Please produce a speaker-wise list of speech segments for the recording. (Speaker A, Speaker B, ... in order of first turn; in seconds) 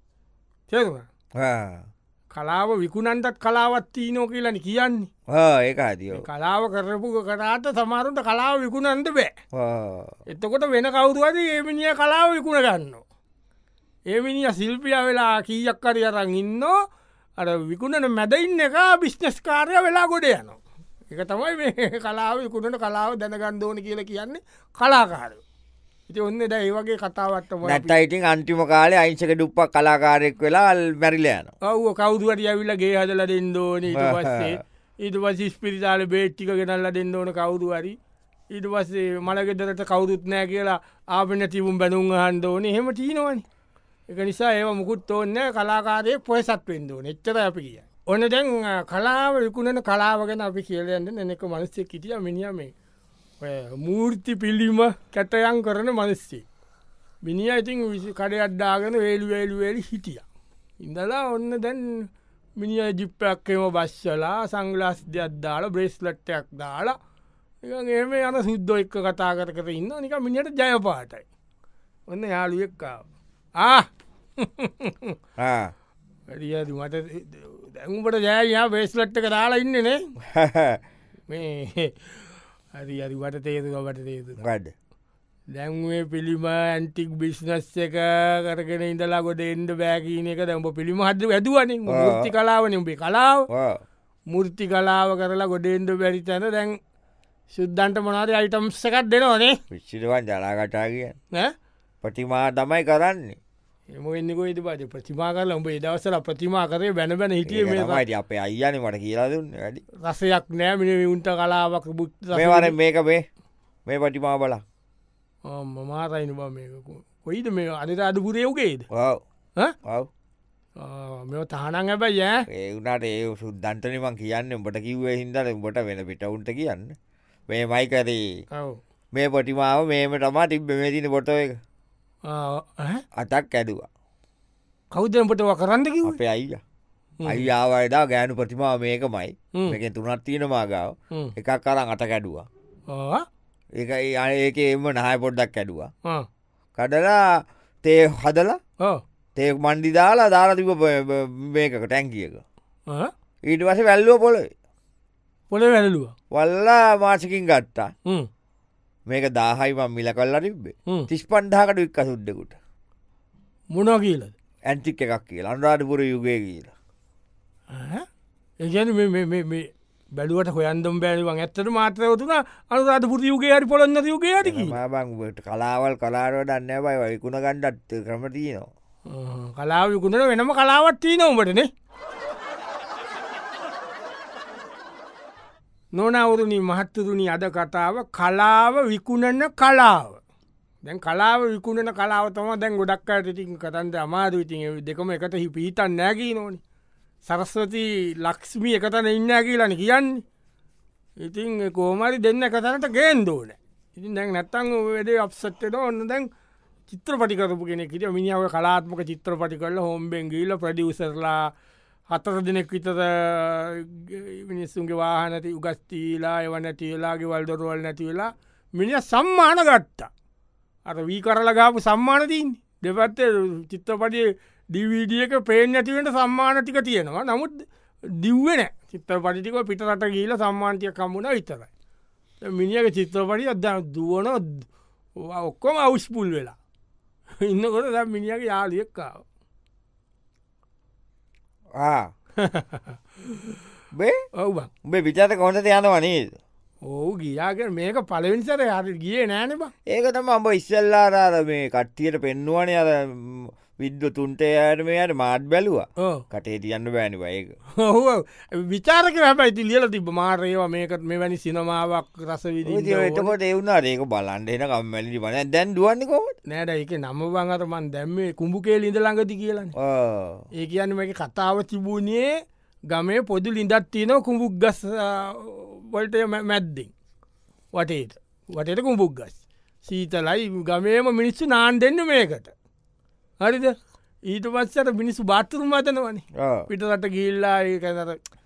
Speaker A: 0.7-1.1, 2.3-5.1, 6.1-9.3, 10.3-13.0, 14.1-16.8, 17.4-20.6, 21.1-25.4, 26.1-27.9, 31.6-38.0, 38.5-43.5, 44.1-52.7, 53.4-56.5, 57.2-60.2, 60.8-67.0, 67.6-71.2, 72.1-73.0, 73.6-75.1, 76.3-80.1, 81.3-84.4, 85.5-93.5, 94.3-96.8, 97.5-99.6, 103.9-108.0, 110.0-112.7, 115.5-118.9, 120.8-122.4, 128.5-128.8, 132.3-133.0, 134.9-136.2, 142.9-143.2, 155.5-156.1, 163.7-164.3, 167.7-168.1, 168.6-174.8, 179.1-181.7, 185.9-190.2, 190.8-196.6, 197.2-200.2, 201.2-206.3, 206.9-211.5, 212.1-220.1, 220.8-231.7, 232.4-234.7, 235.2-236.6, 237.4-239.2, 242.4-243.6, 244.4-244.7, 246.8-249.7, 257.8-263.3, 266.5-269.7, 270.5-272.3, 272.9-276.9, 277.8-282.5, 283.4-283.8, 284.3-288.2
Speaker B: 1.4-1.9, 5.3-6.2, 9.5-10.1, 27.7-31.5, 33.9-34.6, 75.4-75.7, 80.3-80.8, 84.4-84.7, 91.9-92.3, 93.5-93.8, 99.7-101.2, 102.0-103.4, 107.5-109.8, 112.3-113.2, 113.9-114.6, 118.9-119.2, 122.5-126.9, 127.5-128.2, 129.1-131.6, 133.2-133.9, 136.1-136.6, 137.3-142.5, 143.8-145.9, 146.8-147.2, 147.8-148.6, 149.4-152.4, 153.5-154.5, 156.3-157.9, 159.1-162.6, 164.7-166.7, 174.4-178.7, 241.8-242.1, 244.8-246.4, 249.9-257.5, 262.6-266.3, 269.8-270.4, 286.4-286.7